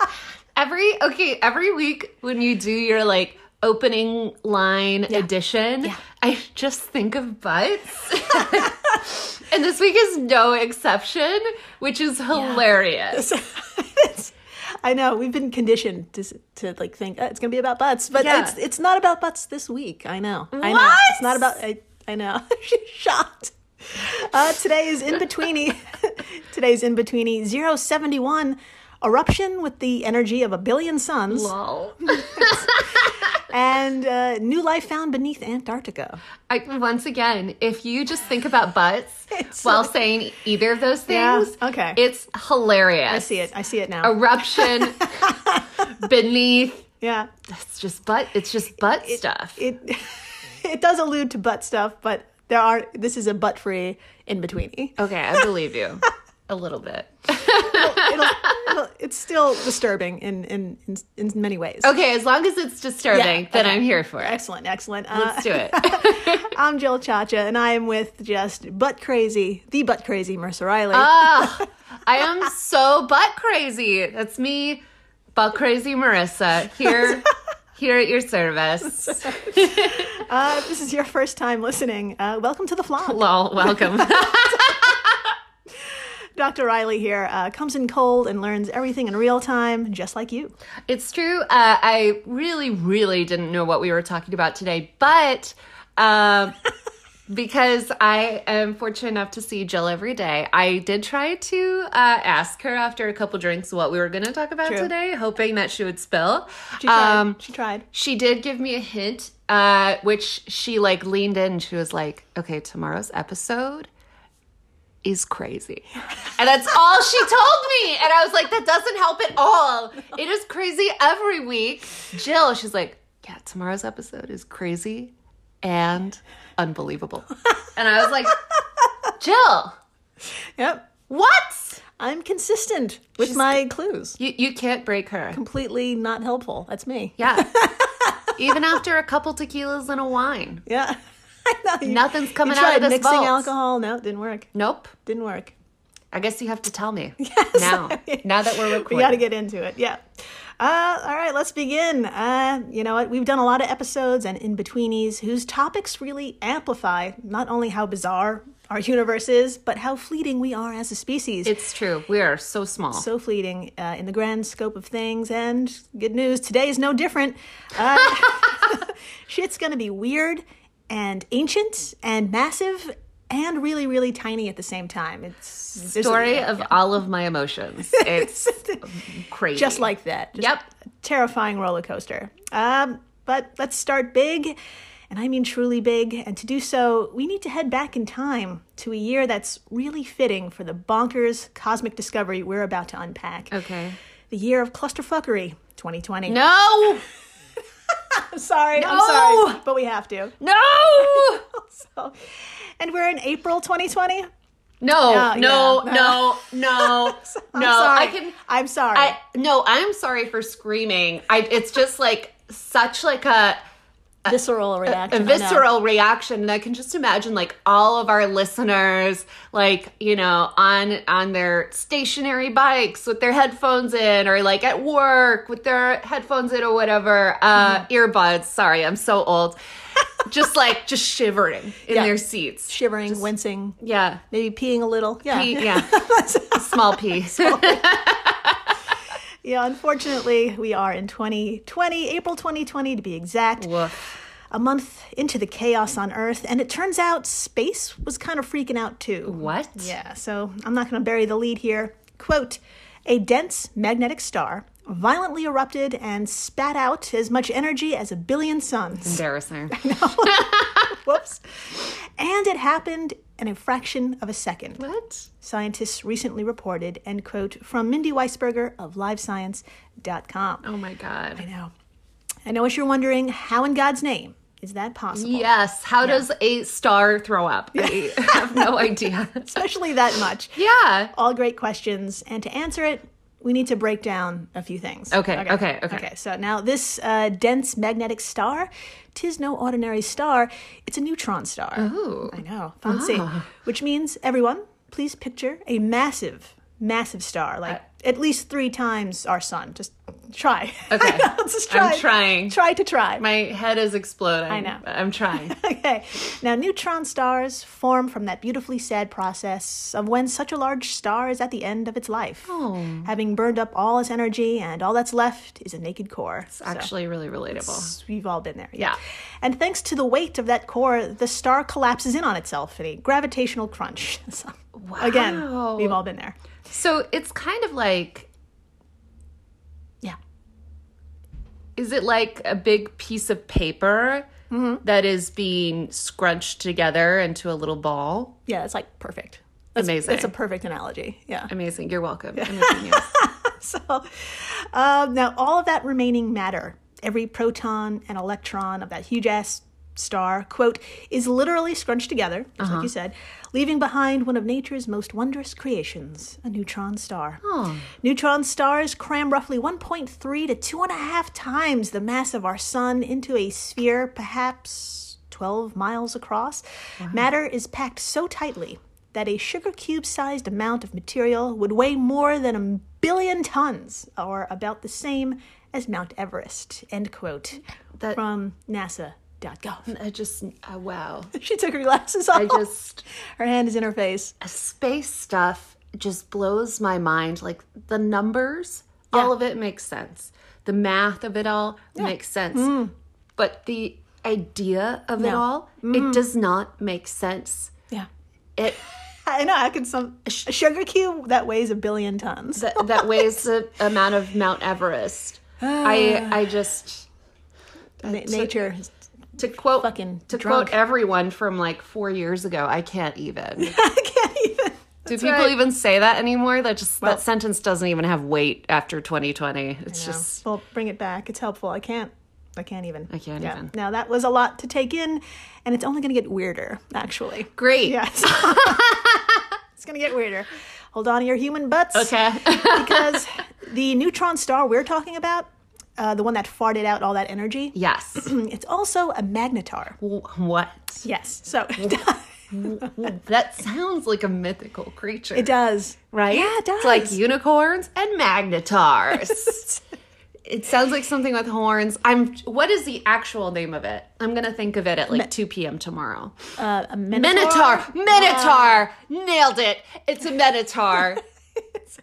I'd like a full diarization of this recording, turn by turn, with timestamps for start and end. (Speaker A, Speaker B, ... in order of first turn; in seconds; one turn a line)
Speaker A: 0.5-13.3
Speaker B: 12.3-31.5
Speaker A: 18.1-18.6
Speaker A: 20.5-21.4
Speaker A: 31.3-32.9
Speaker B: 32.0-32.8
Speaker B: 33.3-36.2
Speaker A: 36.5-43.3
Speaker B: 39.3-39.9
Speaker B: 41.1-42.0
Speaker B: 43.1-45.8
Speaker A: 44.0-46.8
Speaker B: 47.0-47.3
Speaker A: 47.5-49.6
Speaker B: 49.0-55.5
Speaker A: 55.0-58.5
Speaker B: 57.4-61.9
Speaker A: 61.8-64.4
Speaker B: 63.1-71.6
Speaker A: 65.1-66.5
Speaker A: 70.9-74.8
Speaker A: 75.3-80.0
Speaker B: 78.8-84.8
Speaker A: 83.0-85.0
Speaker B: 86.4-90.5
Speaker A: 90.9-96.6
Speaker A: 97.3-107.4
Speaker B: 104.6-104.9
Speaker B: 106.8-107.8
Speaker A: 107.9-113.9
Speaker A: 115.0-128.4
Speaker A: 129.2-129.8
Speaker B: 130.6-130.9
Speaker A: 131.1-131.8
Speaker B: 132.0-134.2
Speaker A: 133.2-133.6
Speaker A: 134.2-135.4
Speaker B: 135.3-138.3
Speaker A: 137.2-137.6
Speaker A: 138.3-140.6
Speaker B: 140.7-144.5
Speaker A: 141.8-143.5
Speaker A: 144.5-144.9
Speaker B: 145.0-145.5
Speaker A: 146.1-149.2
Speaker B: 147.2-161.5
Speaker A: 161.4-163.1
Speaker B: 162.9-176.7
Speaker A: 175.8-180.7
Speaker B: 177.9-178.8
Speaker B: 179.5-184.5
Speaker B: 185.1-193.5
Speaker A: 193.5-194.0
Speaker B: 194.3-196.4
Speaker A: 196.3-197.0
Speaker B: 198.1-200.3
Speaker A: 198.8-199.6
Speaker A: 200.4-201.4
Speaker B: 201.0-202.2
Speaker B: 202.8-204.3
Speaker A: 204.8-208.4
Speaker B: 205.1-209.2
Speaker A: 208.9-213.6
Speaker B: 214.3-215.6
Speaker A: 214.8-229.6
Speaker B: 227.6-227.8
Speaker A: 230.2-233.3
Speaker B: 231.9-232.2
Speaker B: 232.7-233.8
Speaker A: 233.8-234.2
Speaker B: 234.3-238.0
Speaker A: 235.3-238.6
Speaker B: 239.4-243.8
Speaker A: 243.6-244.0
Speaker B: 244.5-264.8
Speaker A: 249.2-249.9
Speaker A: 259.0-260.9
Speaker A: 264.8-265.3
Speaker B: 265.4-270.6
Speaker A: 270.6-271.4
Speaker B: 271.4-271.7
Speaker B: 272.4-275.5
Speaker A: 275.1-279.6
Speaker B: 277.8-280.6
Speaker A: 280.6-281.1
Speaker B: 281.1-303.2
Speaker A: 285.1-286.1
Speaker A: 291.8-293.5
Speaker A: 300.9-302.6
Speaker A: 303.2-305.6
Speaker B: 304.5-304.8
Speaker B: 305.5-316.9
Speaker A: 312.4-313.1
Speaker A: 316.5-317.9
Speaker B: 317.6-326.4
Speaker A: 324.8-326.0
Speaker A: 326.7-328.3
Speaker A: 331.8-334.3
Speaker B: 334.5-334.8
Speaker A: 334.8-338.4
Speaker B: 338.5-341.5
Speaker A: 339.8-340.3
Speaker A: 341.5-343.1
Speaker B: 342.4-379.9
Speaker A: 352.6-352.9
Speaker A: 357.4-357.9
Speaker A: 379.9-381.3
Speaker B: 381.3-382.7
Speaker A: 382.3-383.0
Speaker B: 383.4-384.3
Speaker A: 384.4-392.8
Speaker B: 391.9-392.9
Speaker A: 393.4-397.7
Speaker B: 395.2-396.2
Speaker B: 399.2-403.4
Speaker A: 402.6-407.1
Speaker B: 405.6-406.4
Speaker A: 408.0-408.6
Speaker B: 408.0-408.9
Speaker A: 409.4-413.7
Speaker B: 409.6-410.8
Speaker B: 413.6-415.6
Speaker A: 415.1-420.4
Speaker B: 419.9-429.0
Speaker A: 423.1-423.7
Speaker A: 427.6-429.4
Speaker B: 429.8-440.0
Speaker A: 431.9-433.2
Speaker A: 437.7-438.3
Speaker A: 440.0-441.0
Speaker B: 441.0-442.2
Speaker A: 442.5-445.5
Speaker B: 445.3-447.2
Speaker A: 446.1-449.7
Speaker A: 450.5-456.4
Speaker B: 456.6-458.8
Speaker A: 457.1-461.2